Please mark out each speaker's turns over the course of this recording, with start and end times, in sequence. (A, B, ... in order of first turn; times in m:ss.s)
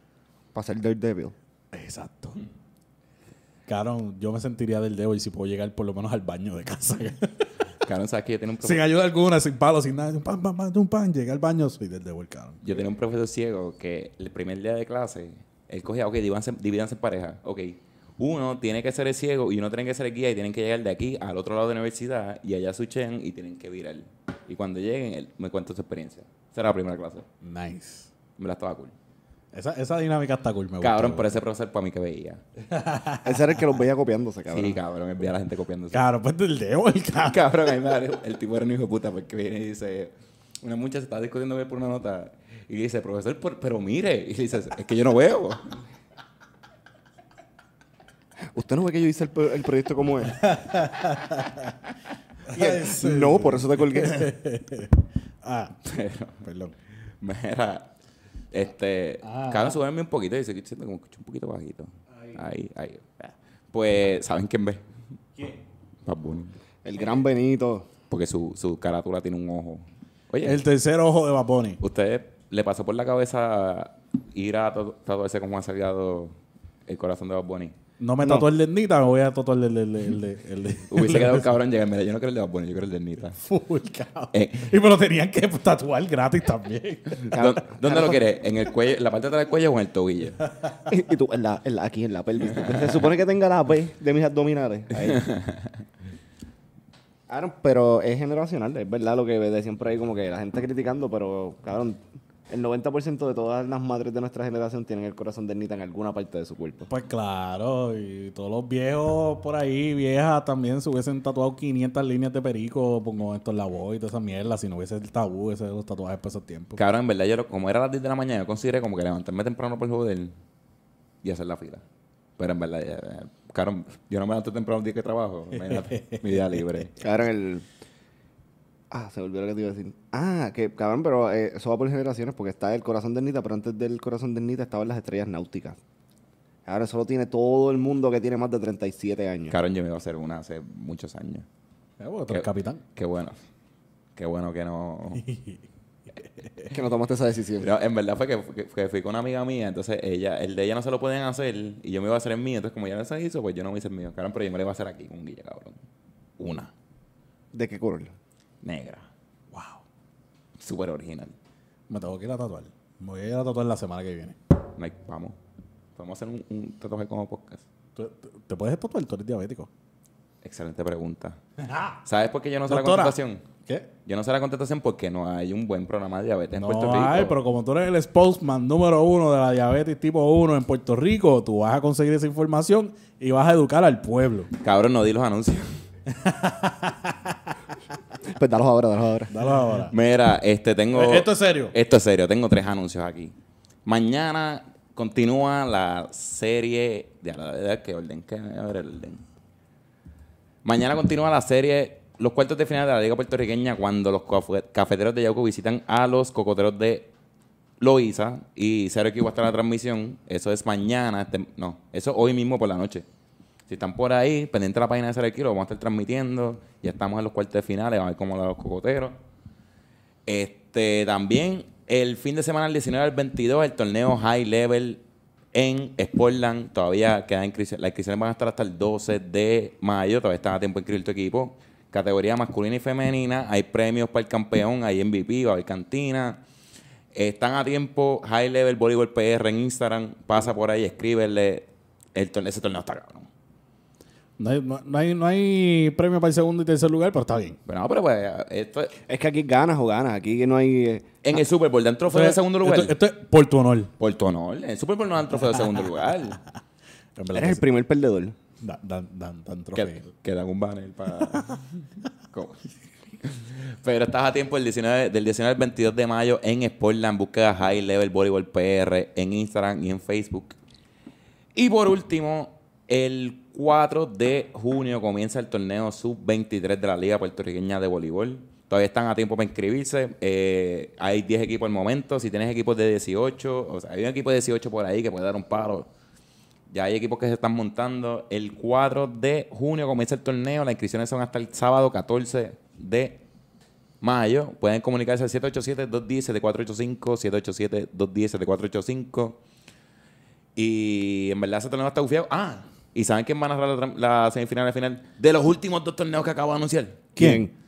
0:00.5-0:01.3 A
0:01.7-0:02.4 B
0:03.7-0:07.5 B
0:07.8-0:08.9 C
0:08.6-0:12.7 B
0:12.6-0:27.2 C
0:27.4-0:28.1 B
0:28.4-0:28.9 C
0:29.5-0:31.4 B
0:30.8-0:32.4 C
0:32.6-0:33.6 B
0:33.2-0:34.8 A
0:34.5-0:36.0 C
0:35.9-0:37.4 B
0:37.3-0:45.7 C
0:48.5-0:50.4 A
0:50.4-0:51.7 B
0:52.5-0:55.8 B
0:52.5-0:54.3 A
0:55.8-0:56.4 C
0:56.4-0:56.7 B
0:57.2-0:57.9 C
0:58.5-1:04.8 C
0:59.2-0:59.8 B
1:06.0-1:06.5 C
1:06.8-1:07.9 A
1:08.1-1:10.6 C
1:10.4-1:11.8 B
1:11.8-1:16.3 C
1:16.9-1:17.7 C
1:18.0-1:21.5 B
1:20.9-1:23.4 C
1:23.4-1:27.3 B
1:24.3-1:24.7 C
1:27.2-1:30.4 C
1:27.3-1:28.2 A
1:30.9-1:35.2 A
1:35.0-1:35.6 C
1:37.3-1:46.9 A
1:46.9-1:56.8 B
1:56.8-2:00.3 C
2:01.2-2:01.8 C
2:02.4-2:06.9 C
2:05.6-2:06.3 B
2:07.0-2:07.6 A
2:08.9-2:15.8 A
2:16.6-2:19.6 A
2:19.5-2:21.4 C
2:22.0-2:22.8 B
2:22.3-2:23.4 C
2:24.2-2:25.2 C
2:25.2-2:25.6 B
2:26.2-2:26.7 B
2:26.7-2:27.7 A
2:27.6-2:35.8 C
2:36.4-2:36.7 C
2:37.5-2:38.1 A
2:38.6-2:39.1 C
2:39.5-2:39.8 B
2:40.6-2:41.3 C
2:41.9-2:44.4 B
2:44.8-2:45.4 C
2:46.0-2:47.6 C
2:48.0-2:49.7 B
2:50.4-2:51.4 C
2:51.6-2:52.0 B
2:52.0-2:53.4 C
2:52.7-2:53.9 B
2:54.0-2:57.4 C
2:56.6-3:04.5 B
3:04.6-3:05.7 C
3:06.1-3:07.3 B
3:08.2-3:09.3 A
3:09.3-3:09.9 B
3:09.9-3:13.3 C
3:10.9-3:11.7 B
3:13.8-3:19.2 C
3:20.6-3:27.1 C
3:27.8-3:33.0 C
3:33.7-3:39.2 C
3:40.3-3:45.0 C
3:45.5-3:56.4 C
3:57.1-4:03.3 C
4:04.4-4:07.6 B
4:07.7-4:09.0 C
4:09.0-4:11.1 A
4:11.2-4:13.0 C
4:12.1-4:13.9 B
4:14.0-4:16.4 C
4:17.2-4:17.6 B
4:17.3-4:18.4 A
4:18.6-4:20.0 B
4:19.7-4:21.7 C
4:22.3-4:22.6 C
4:23.2-4:30.6 C
4:31.5-4:45.9 C
4:46.7-4:53.2 C
4:54.0-4:59.4 C
5:00.6-5:07.2 C
5:07.2-5:07.5 A
5:07.2-5:07.4 B